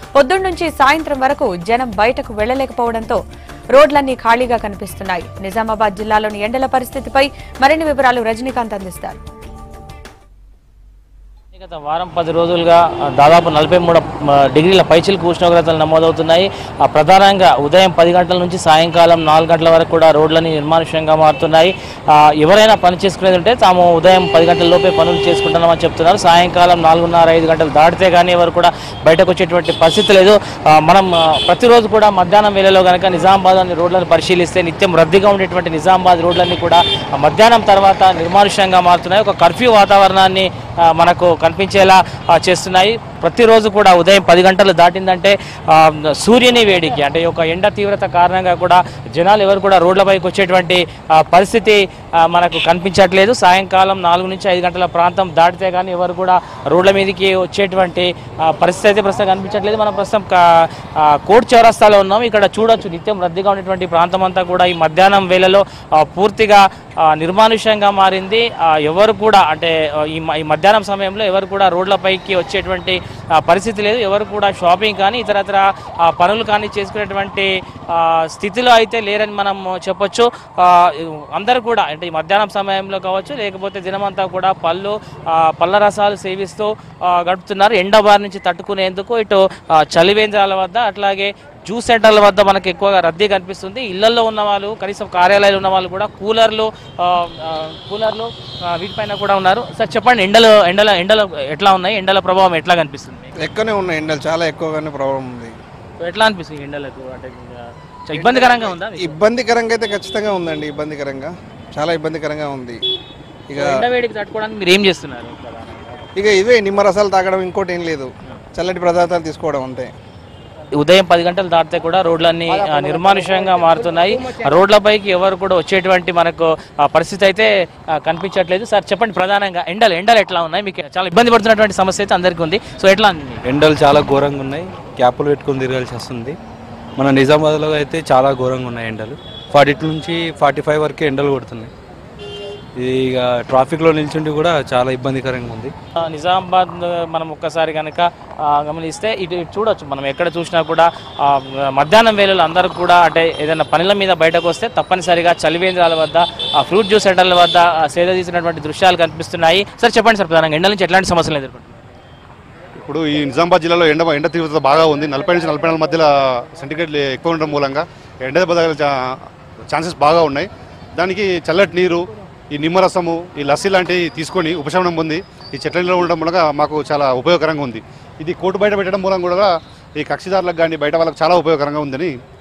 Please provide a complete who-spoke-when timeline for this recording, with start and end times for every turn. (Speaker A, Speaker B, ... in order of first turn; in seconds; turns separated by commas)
Speaker A: 0.2-3.2, Speaker A: 3.7-9.2, Speaker B: 11.5-103.3, Speaker C: 103.4-105.5, Speaker B: 106.0-109.2, Speaker C: 108.1-112.8, Speaker C: 113.5-113.8, Speaker B: 113.6-115.9, Speaker C: 116.2-119.9, Speaker B: 120.8-127.5, Speaker B: 128.0-133.4, Speaker D: 133.5-136.4, Speaker D: 137.0-141.7, Speaker D: 142.8-145.7, Speaker B: 146.0-161.7, Speaker E: 162.8-168.9, Speaker E: 169.7-182.1